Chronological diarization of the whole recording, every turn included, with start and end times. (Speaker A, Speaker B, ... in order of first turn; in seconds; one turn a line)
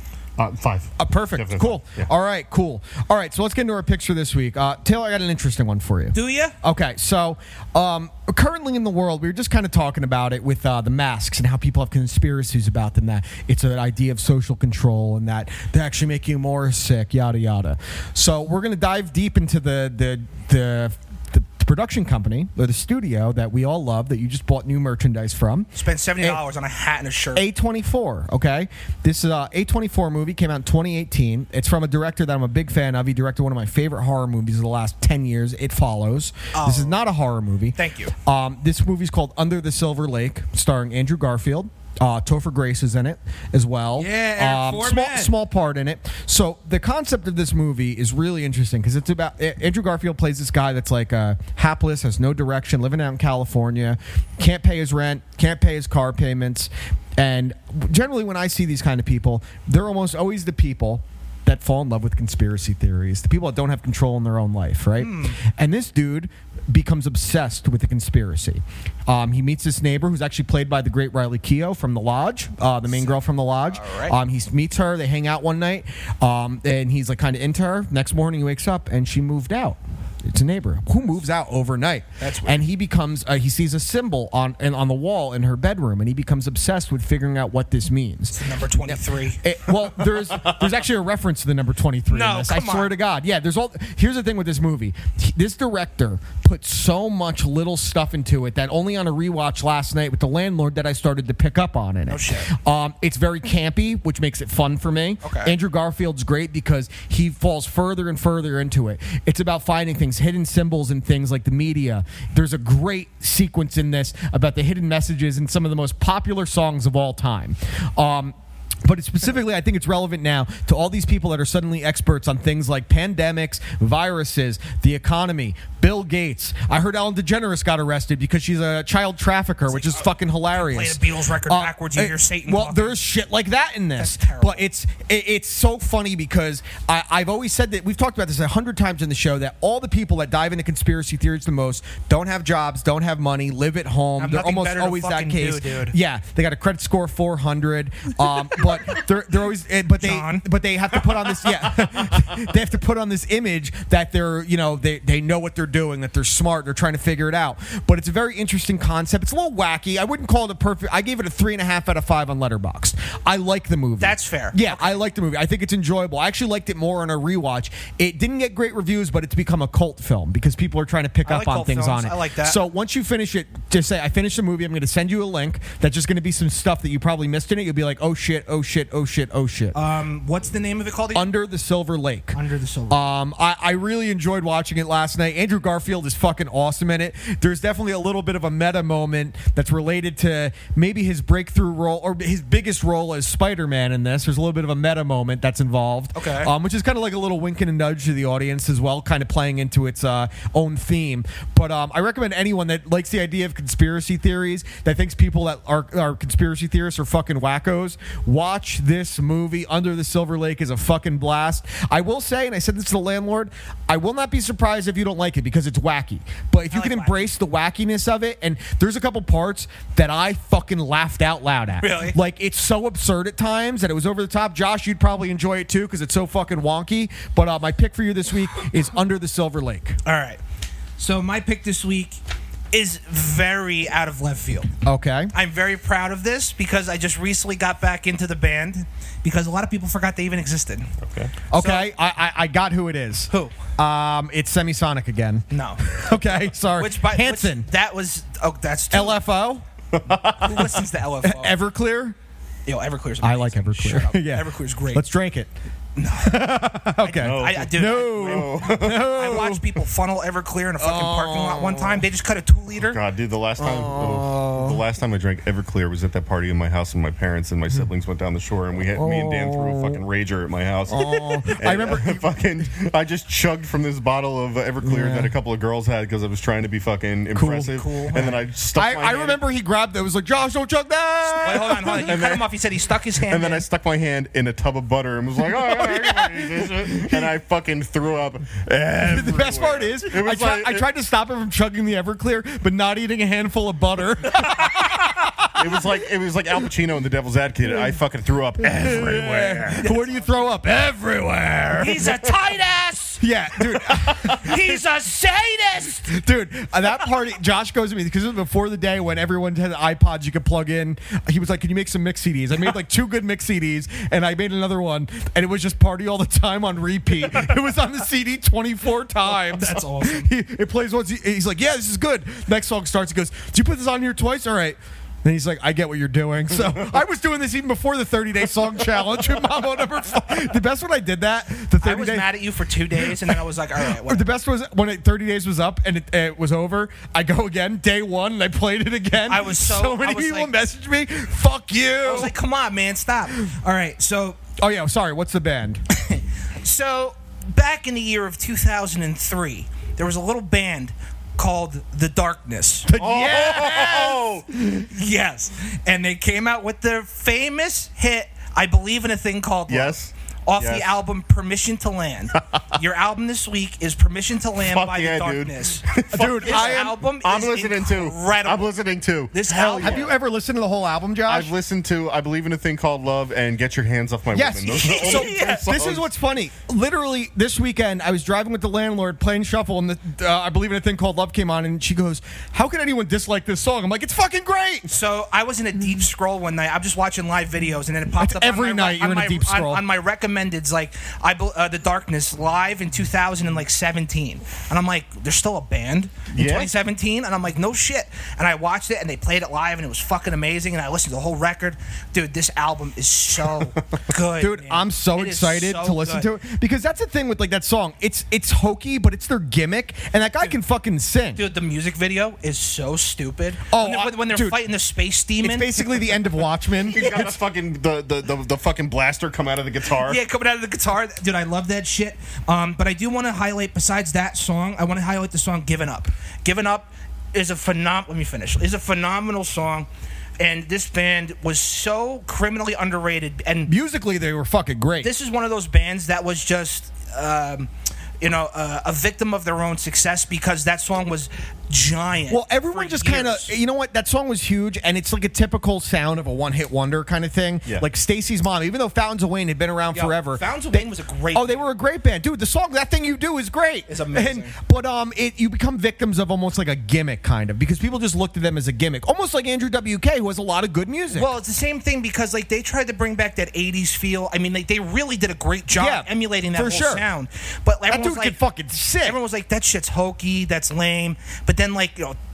Speaker A: 0.4-2.1
Speaker B: 1.0-26.4
Speaker C: 6.1-6.5
Speaker C: 25.7-27.4
Speaker B: 27.3-88.4
Speaker C: 36.5-37.0
Speaker C: 37.7-38.1
Speaker C: 44.0-45.3
Speaker C: 65.0-65.4
Speaker C: 72.9-74.1
Speaker C: 82.2-82.6
Speaker C: 88.3-89.4
Speaker B: 88.9-179.8
Speaker C: 92.1-92.9
Speaker C: 102.1-102.5
Speaker C: 105.2-105.5
Speaker C: 129.7-133.0
Speaker C: 134.0-134.7
Speaker C: 144.2-145.9
Speaker C: 150.0-150.4
Speaker C: 164.0-165.0
Speaker C: 171.2-172.6
Speaker C: 179.7-181.3
Speaker B: 181.1-182.4
Speaker C: 182.3-183.0
Speaker B: 182.9-230.0
Speaker C: 196.1-196.5
Speaker C: 216.7-217.3
Speaker C: 221.8-222.2
Speaker C: 230.0-230.4
Speaker C: 231.0-232.2
Speaker C: 232.7-234.7
Speaker B: 234.8-235.3
Speaker C: 235.3-240.9
Speaker A: 241.0-241.3
Speaker B: 241.5-247.7
Speaker C: 241.5-241.9
Speaker C: 245.5-246.0
Speaker C: 246.7-249.2
Speaker B: 248.9-249.6
Speaker A: 249.9-250.8
Speaker C: 250.4-251.6
Speaker B: 251.2-252.2
Speaker C: 252.7-255.0
Speaker B: 253.2-255.5
Speaker C: 255.9-263.0
Speaker B: 256.2-259.6
Speaker A: 257.2-259.2
Speaker B: 260.8-262.0
Speaker A: 262.8-279.4
Speaker B: 263.6-264.8
Speaker B: 268.9-270.0
Speaker B: 270.9-272.2
Speaker B: 274.8-275.3
Speaker B: 277.3-277.7
Speaker C: 277.7-278.3
Speaker B: 278.7-282.1
Speaker C: 281.4-283.6
Speaker A: 281.9-282.5
Speaker A: 283.2-290.9
Speaker B: 285.4-287.3
Speaker B: 289.0-295.8
Speaker A: 295.6-299.8
Speaker B: 298.6-302.1
Speaker C: 299.8-300.2
Speaker C: 301.8-306.1
Speaker B: 303.2-304.8
Speaker B: 306.1-332.3
Speaker C: 319.3-320.3
Speaker C: 331.8-334.2
Speaker B: 333.1-333.3
Speaker B: 334.0-342.3
Speaker C: 339.3-340.5
Speaker C: 342.0-344.4
Speaker B: 344.6-345.8
Speaker C: 345.9-352.9
Speaker B: 352.9-354.8
Speaker A: 353.0-354.4
Speaker C: 354.9-368.7
Speaker A: 359.7-361.0
Speaker A: 364.6-370.1
Speaker B: 366.1-367.0
Speaker C: 369.3-370.1
Speaker B: 369.5-371.5
Speaker A: 371.2-376.1
Speaker B: 374.3-384.9
Speaker C: 374.7-375.7
Speaker C: 384.9-406.3
Speaker B: 388.2-389.8
Speaker A: 396.3-396.7
Speaker B: 404.4-411.4
Speaker C: 411.4-416.0
Speaker B: 413.7-414.6
Speaker B: 415.4-417.3
Speaker A: 416.8-420.2
Speaker C: 420.0-429.9
Speaker C: 430.4-433.7
Speaker B: 433.7-435.1
Speaker C: 435.0-437.7
Speaker C: 438.2-443.5
Speaker B: 442.3-461.3
Speaker C: 449.9-451.6
Speaker C: 453.9-454.5
Speaker C: 461.1-468.4
Speaker B: 465.7-467.0
Speaker B: 467.9-469.2
Speaker C: 469.0-472.2